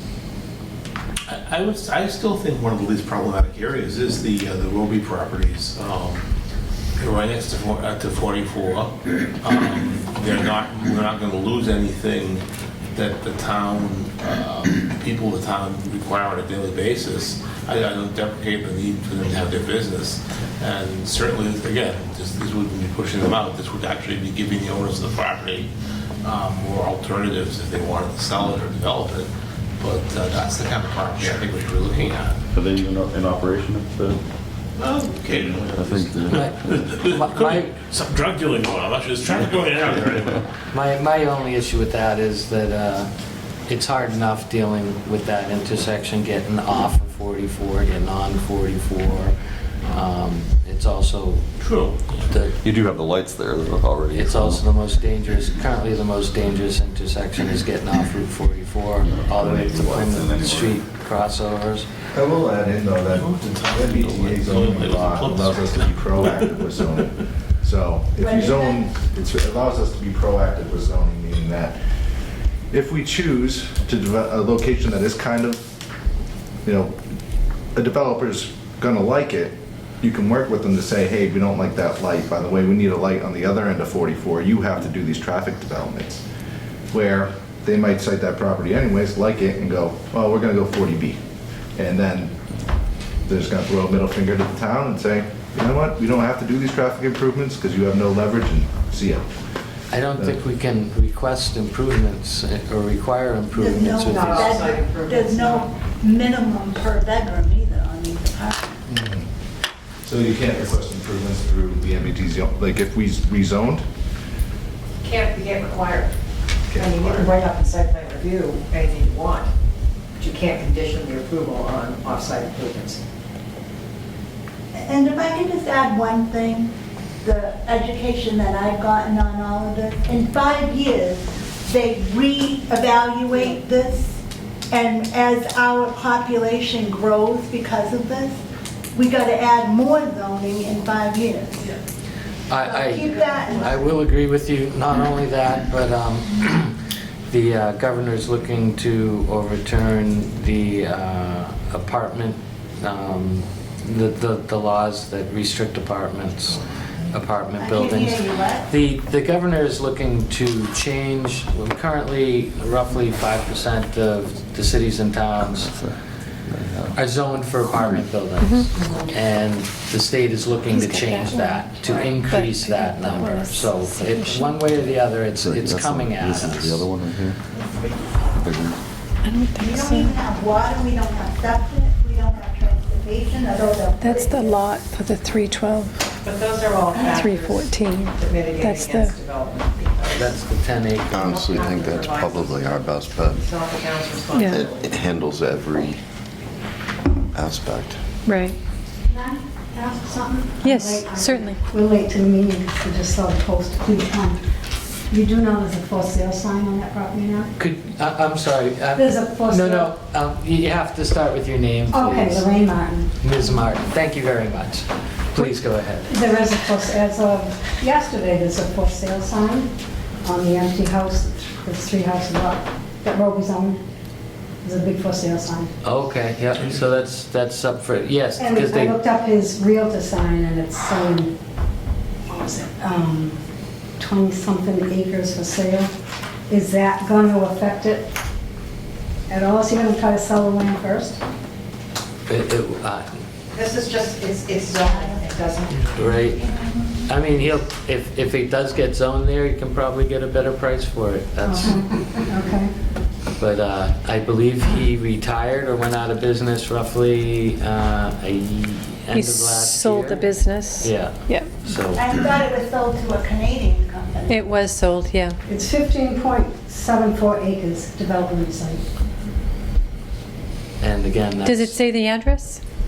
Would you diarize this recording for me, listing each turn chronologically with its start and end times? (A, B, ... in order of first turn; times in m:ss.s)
0:01.3-0:06.2 A
0:07.0-0:12.4 A
0:12.9-0:25.7 A
0:26.2-0:29.3 A
0:29.8-0:32.4 A
0:32.5-0:34.2 B
0:34.8-0:40.4 A
0:35.3-0:36.5 B
0:36.3-0:37.8 C
0:40.7-0:43.1 C
0:43.7-0:49.3 C
0:49.9-0:51.5 C
0:51.6-0:52.3 A
0:52.3-0:52.6 C
0:52.6-0:54.6 D
0:54.1-1:01.9 C
0:59.3-1:00.8 D
1:02.1-1:11.8 E
1:03.1-1:06.3 A
1:08.2-1:08.8 F
1:12.7-1:15.6 E
1:16.6-1:17.0 E
1:17.8-1:26.2 E
1:26.9-1:31.2 E
1:31.8-1:32.3 E
1:33.3-1:39.2 E
1:39.9-1:44.5 C
1:43.5-1:48.7 F
1:44.0-1:45.7 G
1:48.9-1:49.3 E
1:50.0-1:53.8 E
1:55.0-1:56.1 G
1:56.7-1:57.3 E
1:56.8-1:59.5 G
2:00.2-2:03.0 G
2:04.7-2:06.7 F
2:07.2-2:14.2 F
2:14.7-2:18.4 F
2:18.9-2:21.8 F
2:22.5-2:26.8 C
2:22.6-2:24.0 F
2:27.3-2:36.6 C
2:37.1-2:45.7 C
2:37.6-2:38.7 F
2:45.6-2:47.0 D
2:46.9-2:56.9 C
2:48.4-2:48.7 H
2:50.7-2:51.8 H
2:51.9-2:52.2 G
2:52.3-2:54.6 H
2:55.3-2:57.4 D
2:58.4-2:58.8 D
2:59.2-3:00.2 H
2:59.5-3:04.7 F
3:04.0-3:06.0 H
3:06.2-3:10.4 G
3:07.0-3:09.2 H
3:10.1-3:11.6 C
3:11.1-3:14.9 G
3:11.2-3:13.4 I
3:11.7-3:12.5 D
3:14.3-3:14.7 H
3:14.5-3:16.0 I
3:17.3-3:18.0 I
3:18.2-3:18.6 H
3:19.1-3:24.4 J
3:20.6-3:21.6 H
3:25.1-3:27.5 J
3:27.6-3:32.4 C
3:28.9-3:29.9 J
3:31.9-3:33.1 J
3:33.2-3:36.1 C
3:36.1-3:39.7 J
3:40.2-3:43.8 J
3:44.6-3:45.7 J
3:45.8-3:49.0 C
3:48.4-3:51.3 J
3:52.3-3:53.4 J
3:54.0-3:55.9 J
3:56.5-3:58.1 J
3:59.3-4:01.2 J
4:02.3-4:03.1 C
4:03.5-4:06.2 G
4:04.8-4:07.1 F
4:05.9-4:06.4 C
4:07.1-4:11.8 C
4:11.4-4:12.7 J
4:13.4-4:22.0 C
4:19.1-4:21.5 H
4:21.9-4:24.6 F
4:24.3-4:25.4 H
4:25.5-4:28.8 J
4:30.8-4:31.8 C
4:31.4-4:32.6 H